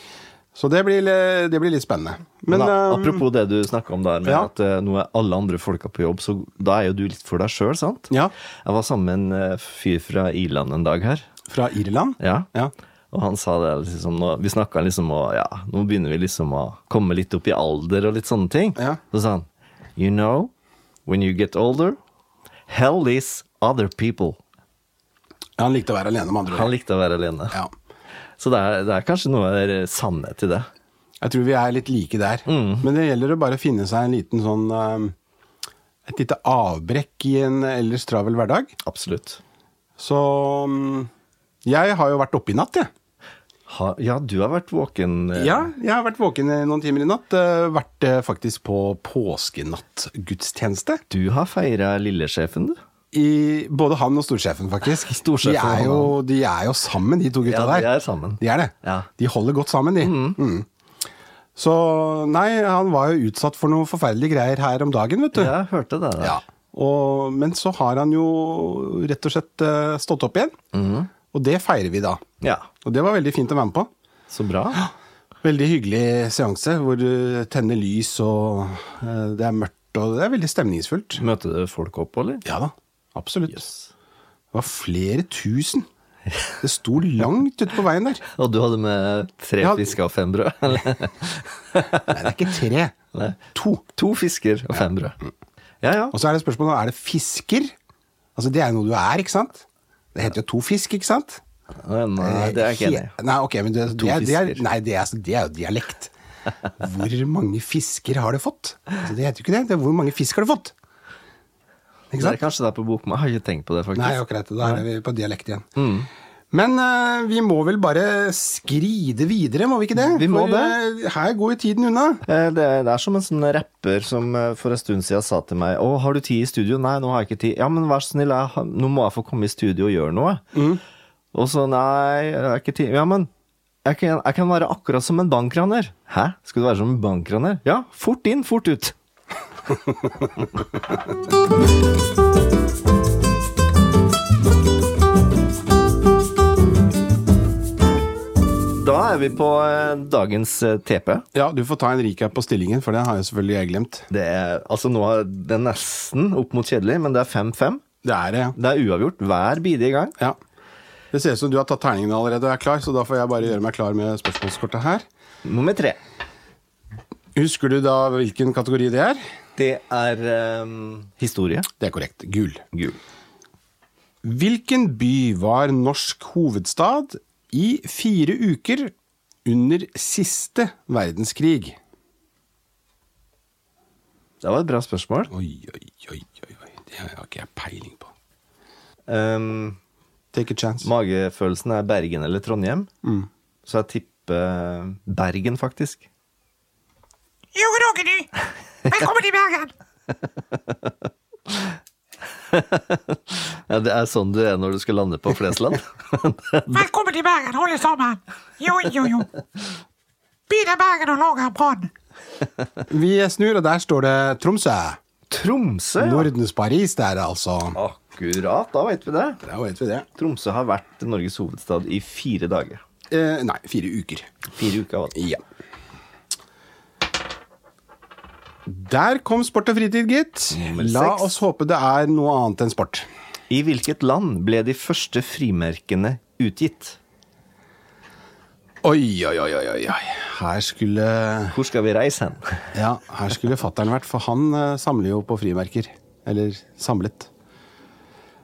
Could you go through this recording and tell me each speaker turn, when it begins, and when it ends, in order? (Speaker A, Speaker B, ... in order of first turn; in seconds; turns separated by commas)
Speaker A: 0.5-3.2, Speaker B: 2.5-8.1, Speaker A: 4.2-4.5, Speaker B: 8.6-11.3, Speaker A: 11.5-12.7, Speaker B: 12.2-12.5, Speaker B: 13.1-20.5, Speaker B: 21.1-22.0, Speaker B: 22.7-24.4, Speaker A: 25.6-26.7, Speaker B: 26.5-27.6, Speaker B: 28.4-30.7, Speaker A: 31.2-35.1, Speaker B: 32.5-32.9, Speaker A: 36.0-38.8, Speaker B: 38.8-39.4, Speaker A: 40.0-41.1, Speaker A: 41.6-42.9, Speaker B: 43.7-45.7, Speaker A: 45.3-51.0, Speaker B: 51.1-52.8, Speaker A: 53.1-57.9, Speaker B: 55.0-56.2, Speaker B: 57.4-59.1, Speaker A: 58.4-60.6, Speaker B: 60.0-60.4, Speaker A: 61.5-65.5, Speaker B: 65.3-66.4, Speaker A: 66.2-70.5, Speaker B: 70.7-71.1, Speaker A: 71.3-72.2, Speaker B: 72.4-72.7, Speaker A: 72.8-73.9, Speaker B: 74.3-74.8, Speaker A: 75.4-81.2, Speaker B: 81.2-82.4, Speaker A: 82.4-83.7, Speaker B: 83.5-83.9, Speaker A: 84.5-85.9, Speaker A: 86.6-88.2, Speaker B: 88.3-92.2, Speaker A: 89.6-89.9, Speaker A: 92.0-93.0, Speaker A: 93.5-93.8, Speaker B: 94.0-95.2, Speaker B: 95.8-96.2, Speaker A: 96.1-97.7, Speaker A: 98.3-101.4, Speaker B: 101.8-103.1, Speaker A: 102.2-106.1, Speaker B: 103.9-104.6, Speaker A: 106.8-110.7, Speaker A: 112.1-112.4, Speaker B: 112.2-114.8, Speaker A: 113.9-115.7, Speaker B: 115.8-116.1, Speaker A: 116.5-122.2, Speaker B: 120.0-120.8, Speaker B: 122.2-130.4, Speaker A: 130.5-130.8, Speaker B: 131.3-133.3, Speaker B: 133.8-138.9, Speaker B: 148.7-151.2, Speaker A: 151.3-154.1, Speaker B: 154.1-157.8, Speaker A: 158.0-158.6, Speaker B: 158.6-160.1, Speaker A: 161.1-165.0, Speaker B: 165.4-166.0, Speaker A: 167.3-169.2, Speaker B: 169.6-171.7, Speaker A: 171.8-172.6, Speaker B: 172.7-173.0, Speaker A: 174.2-178.9, Speaker A: 179.4-181.8, Speaker B: 184.4-185.3, Speaker A: 185.3-188.1, Speaker B: 189.1-189.8, Speaker A: 190.3-190.9, Speaker B: 190.8-192.9, Speaker B: 193.7-196.1, Speaker C: 197.5-198.3, Speaker C: 198.8-199.7, Speaker B: 202.5-206.8, Speaker C: 206.7-209.3, Speaker C: 210.5-211.9, Speaker A: 212.9-215.0, Speaker B: 215.3-216.3, Speaker A: 216.0-217.8, Speaker B: 217.7-219.4, Speaker A: 219.4-220.1, Speaker B: 220.2-222.8, Speaker A: 223.1-224.3, Speaker B: 224.5-225.2, Speaker A: 225.1-225.4, Speaker A: 228.7-233.1, Speaker B: 230.5-231.3, Speaker B: 233.5-237.0, Speaker A: 238.8-241.6, Speaker B: 241.5-242.7, Speaker A: 242.7-247.3